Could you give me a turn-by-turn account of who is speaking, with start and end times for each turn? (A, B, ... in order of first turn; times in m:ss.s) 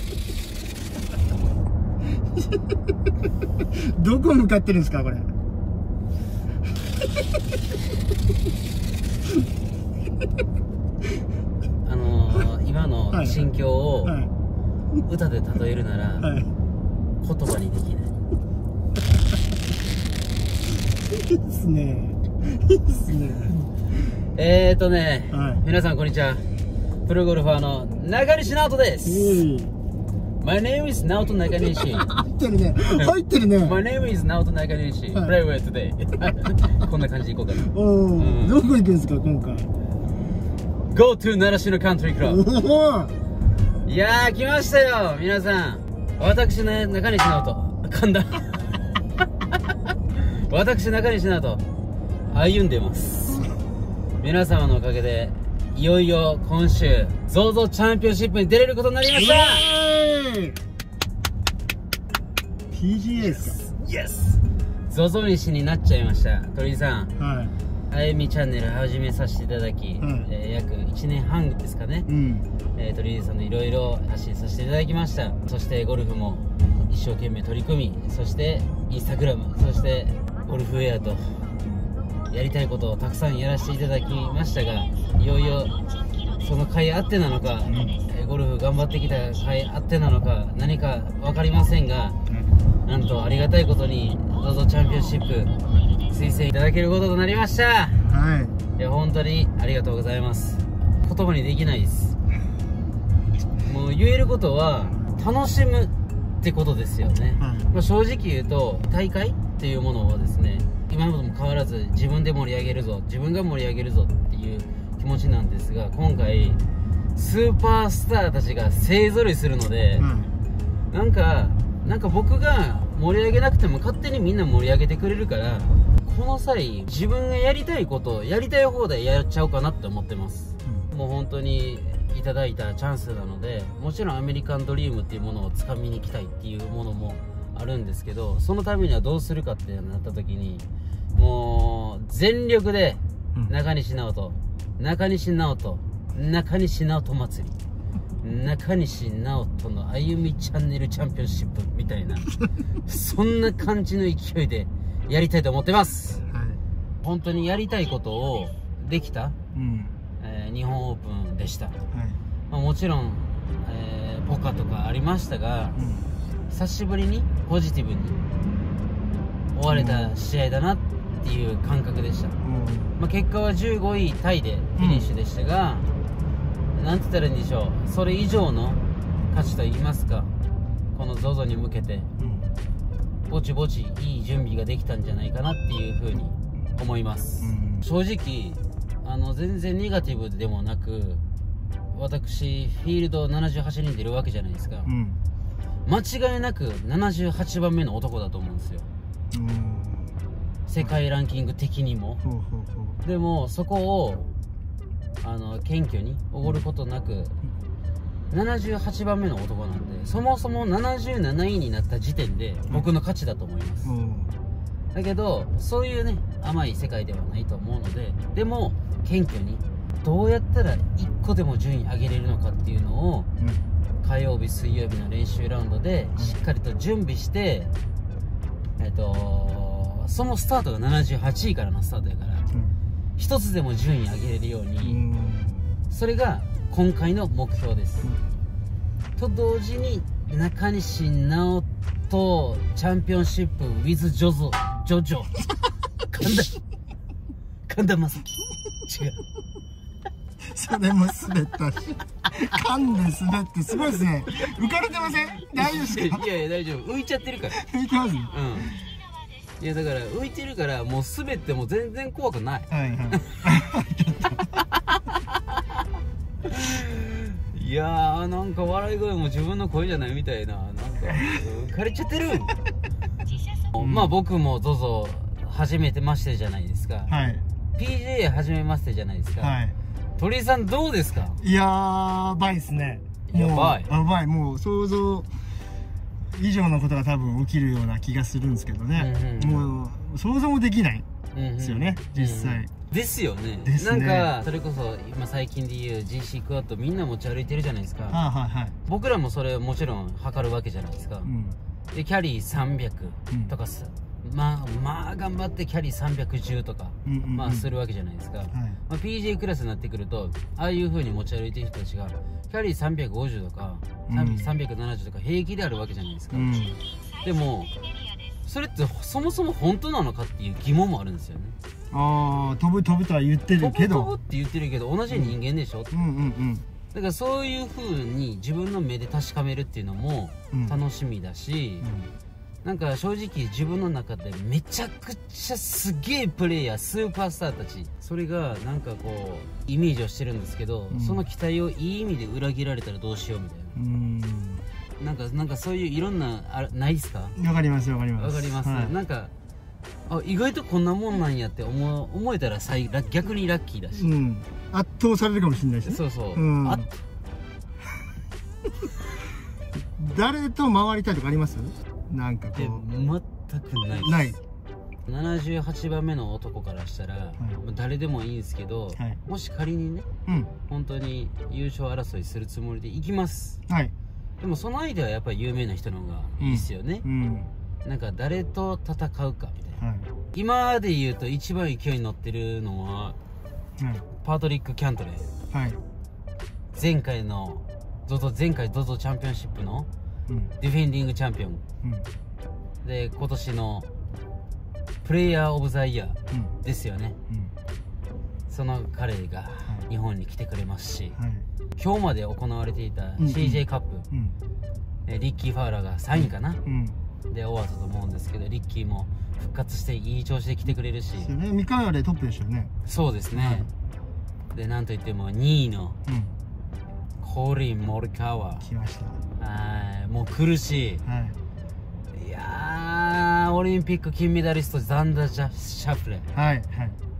0:03.7-0:05.3 A
0:11.8-0:14.2 B
0:13.1-0:13.5 A
0:14.0-0:14.3 A
0:15.0-0:16.3 B
0:16.2-0:16.5 A
0:17.2-0:18.1 B
0:21.1-0:24.1 A
0:24.3-0:26.5 B
0:25.3-0:25.6 A
0:27.0-0:29.4 B
0:29.0-0:29.7 A
0:30.4-0:32.1 B
0:31.6-0:33.8 A
0:32.9-0:38.6 B
0:37.6-0:39.7 A
0:40.9-0:42.4 B
0:42.2-0:43.1 A
0:43.8-0:48.8 B
0:50.2-0:51.6 B
0:52.3-0:53.5 B
0:54.2-0:59.7 B
0:59.1-1:00.6 A
1:02.7-1:03.6 A
1:03.2-1:07.1 B
1:07.2-1:07.5 A
1:07.9-1:12.1 B
1:10.0-1:10.3 A
1:12.1-1:12.5 A
1:12.7-1:21.5 B
1:22.3-1:25.8 B
1:26.4-1:32.2 B
1:27.6-1:28.0 A
1:32.3-1:32.6 A
1:32.8-1:35.5 B
1:36.1-1:38.0 B
1:38.0-1:38.6 A
1:38.8-1:42.2 B
1:43.6-1:56.6 B
1:47.4-1:47.7 A
1:57.1-2:00.0 B
2:00.0-2:00.4 A
2:00.9-2:27.6 B
2:28.2-2:32.3 B
2:32.8-2:36.2 B
2:36.3-2:36.6 A
2:37.0-2:39.4 B
2:39.5-2:40.0 A
2:40.2-2:41.8 B
2:41.9-2:42.2 A
2:42.5-2:45.8 B
2:45.7-2:46.1 A
2:46.5-2:48.2 B
2:49.5-2:52.4 B
2:49.7-2:50.3 A
2:52.4-2:52.9 A
2:53.0-2:55.9 B
2:54.8-2:55.1 A
2:56.7-3:00.3 B
3:00.9-3:02.1 B
3:02.2-3:02.5 A
3:03.3-3:11.2 B
3:07.4-3:07.8 A
3:11.9-3:14.9 B
3:14.8-3:15.2 A
3:15.8-3:18.9 B
3:19.3-3:20.2 A
3:20.7-3:22.2 B
3:22.2-3:23.0 A
3:23.0-3:24.3 B
3:25.2-3:27.4 B
3:28.3-3:33.9 B
3:33.8-3:34.4 A
3:34.9-3:43.3 B
3:43.4-3:43.6 A
3:44.0-3:47.7 B
3:48.8-3:52.4 B
3:52.5-3:52.8 A
3:53.2-3:55.0 B
3:54.8-3:55.7 A
3:55.9-3:58.1 B
3:59.2-4:05.4 B
4:06.1-4:06.5 B
4:07.7-4:08.3 B
4:08.8-4:09.2 B
4:10.4-4:16.2 A
4:15.5-4:17.6 B
4:17.5-4:18.3 A
4:18.3-4:18.7 B
4:19.6-4:23.4 B
4:22.7-4:24.5 A
4:24.8-4:25.6 B
4:26.4-4:32.5 B
4:33.7-4:37.1 B
4:33.8-4:34.1 A
4:37.1-4:37.4 A
4:37.8-4:39.6 B
4:39.4-4:39.8 A
4:40.2-4:41.4 B
4:41.3-4:45.3 A
4:43.3-4:43.9 B
4:46.3-4:51.0 A
4:49.0-4:49.7 B
4:51.3-4:58.2 B
4:51.6-4:52.7 A
4:53.6-4:54.3 A
4:58.1-4:58.8 A
4:58.8-5:01.3 B
5:01.2-5:01.6 A
5:01.9-5:16.6 B
5:07.0-5:07.7 A
5:08.5-5:08.8 A
5:14.1-5:14.5 A
5:16.3-5:16.8 A
5:17.2-5:17.7 B
5:18.4-5:21.6 B
5:21.9-5:24.1 A
5:23.6-5:25.9 B
5:25.1-5:25.4 A
5:25.9-5:26.7 A
5:26.9-5:31.9 B
5:30.5-5:30.8 A
5:31.8-5:32.1 A
5:32.6-5:43.8 B
5:40.9-5:41.2 A
5:43.7-5:44.7 A
5:45.0-5:47.4 B
5:47.4-5:48.9 A
5:48.2-5:49.3 B
5:50.1-5:54.1 B
5:53.9-5:56.9 A
5:55.8-5:56.8 B
6:00.0-6:02.8 A
6:02.6-6:04.4 B
6:04.0-6:04.4 A
6:05.1-6:10.1 B
6:07.4-6:07.6 A
6:10.7-6:13.6 B
6:13.7-6:13.9 A
6:14.4-6:17.0 B
6:16.4-6:17.5 A
6:17.8-6:19.8 B
6:19.8-6:20.1 A
6:20.3-6:23.2 B
6:23.8-6:24.0 A
6:24.2-6:25.3 B
6:25.5-6:25.8 A
6:26.7-6:29.9 B
6:30.3-6:30.5 A
6:30.6-6:31.6 B
6:31.8-6:32.1 A
6:32.8-6:33.9 B
6:35.0-6:37.2 B
6:36.3-6:36.5 A
6:38.5-6:41.2 B
6:41.1-6:41.4 A
6:41.8-6:44.1 B
6:43.2-6:44.3 A
6:45.0-6:46.6 B
6:46.2-6:47.0 A
6:47.3-6:51.3 B
6:51.2-6:52.7 A
6:52.9-6:53.7 B
6:53.3-6:53.7 A
6:54.5-6:56.0 B
6:56.0-6:56.3 A
6:57.2-6:58.7 B
6:58.6-6:59.2 A
6:59.4-7:01.0 B
7:01.0-7:01.4 A
7:02.1-7:06.3 B
7:06.3-7:07.0 A